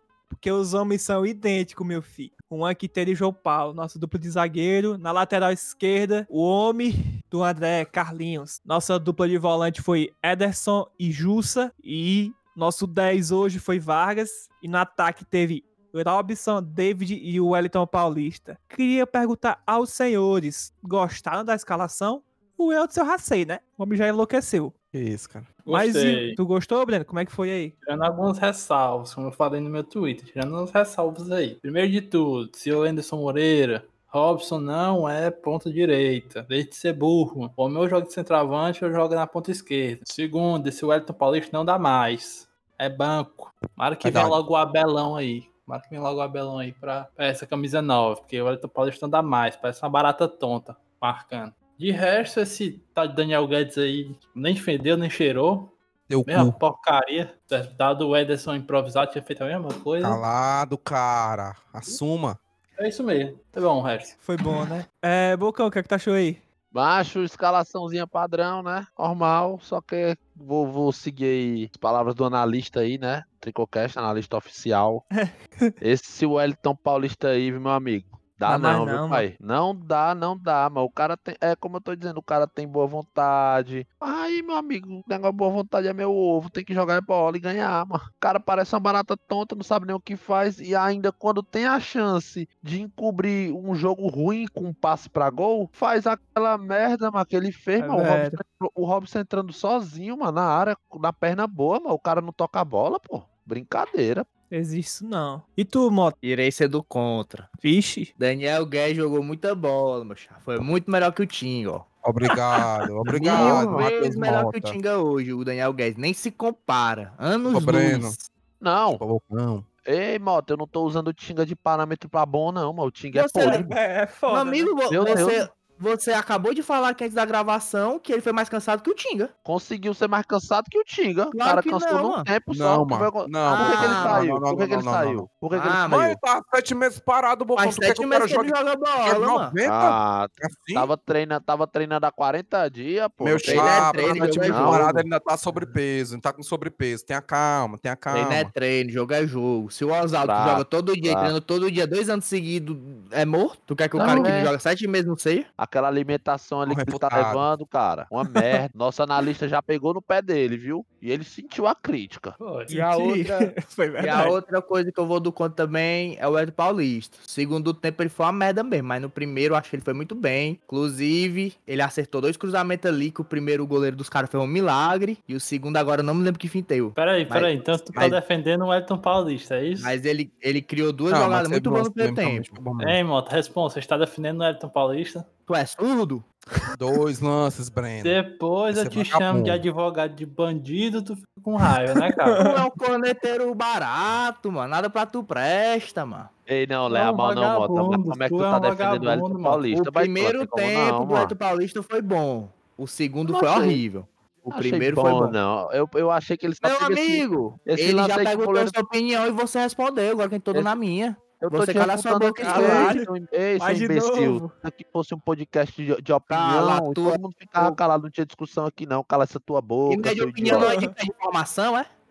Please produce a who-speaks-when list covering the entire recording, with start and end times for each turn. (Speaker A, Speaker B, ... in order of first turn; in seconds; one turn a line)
Speaker A: 0.3-24.7
Speaker B: 24.9-25.5
Speaker C: 25.6-26.4
Speaker A: 25.7-27.7
Speaker C: 27.8-55.7
Speaker B: 44.0-44.4
Speaker B: 56.1-56.6
Speaker C: 56.3-60.2
Speaker B: 60.0-62.4
Speaker C: 62.8-64.2
Speaker A: 64.2-66.4
Speaker D: 66.7-75.0
Speaker A: 75.2-75.7
Speaker D: 75.8-104.2
Speaker A: 78.5-79.2
Speaker A: 97.8-98.4
Speaker A: 104.5-106.1
Speaker E: 106.2-107.5
Speaker A: 107.6-108.1
Speaker E: 108.2-118.2
Speaker B: 112.0-114.8
Speaker D: 113.3-113.9
Speaker B: 117.5-118.2
Speaker D: 118.6-119.0
Speaker B: 119.0-119.7
Speaker D: 119.8-123.7
Speaker E: 123.1-123.7
Speaker A: 123.4-125.3
Speaker E: 124.3-129.3
Speaker D: 124.9-125.4
Speaker D: 129.4-135.8
Speaker E: 131.3-132.3
Speaker B: 132.5-135.3
Speaker E: 133.4-134.2
Speaker E: 135.5-136.2
Speaker B: 135.8-140.9
Speaker E: 137.6-139.5
Speaker D: 139.6-145.0
Speaker B: 143.2-148.5
Speaker E: 143.4-144.9
Speaker E: 148.1-155.5
Speaker D: 150.2-151.3
Speaker D: 154.0-154.5
Speaker D: 155.6-162.4
Speaker B: 156.7-157.5
Speaker C: 162.4-162.8
Speaker A: 162.7-164.4
Speaker E: 162.7-178.2
Speaker C: 176.9-179.9
Speaker E: 179.8-182.5
Speaker B: 181.1-183.0
Speaker C: 182.8-185.3
Speaker E: 185.5-186.2
Speaker B: 186.8-188.2
Speaker C: 188.0-192.4
Speaker B: 188.7-189.6
Speaker A: 192.3-192.6
Speaker E: 192.4-196.3
Speaker D: 196.5-201.3
Speaker C: 196.9-199.6
Speaker E: 199.7-205.3
Speaker D: 203.2-203.8
Speaker D: 204.5-208.7
Speaker E: 206.6-212.9
Speaker D: 211.4-220.7
Speaker A: 212.4-214.5
Speaker E: 216.3-217.8
Speaker E: 219.9-221.9
Speaker A: 220.5-220.9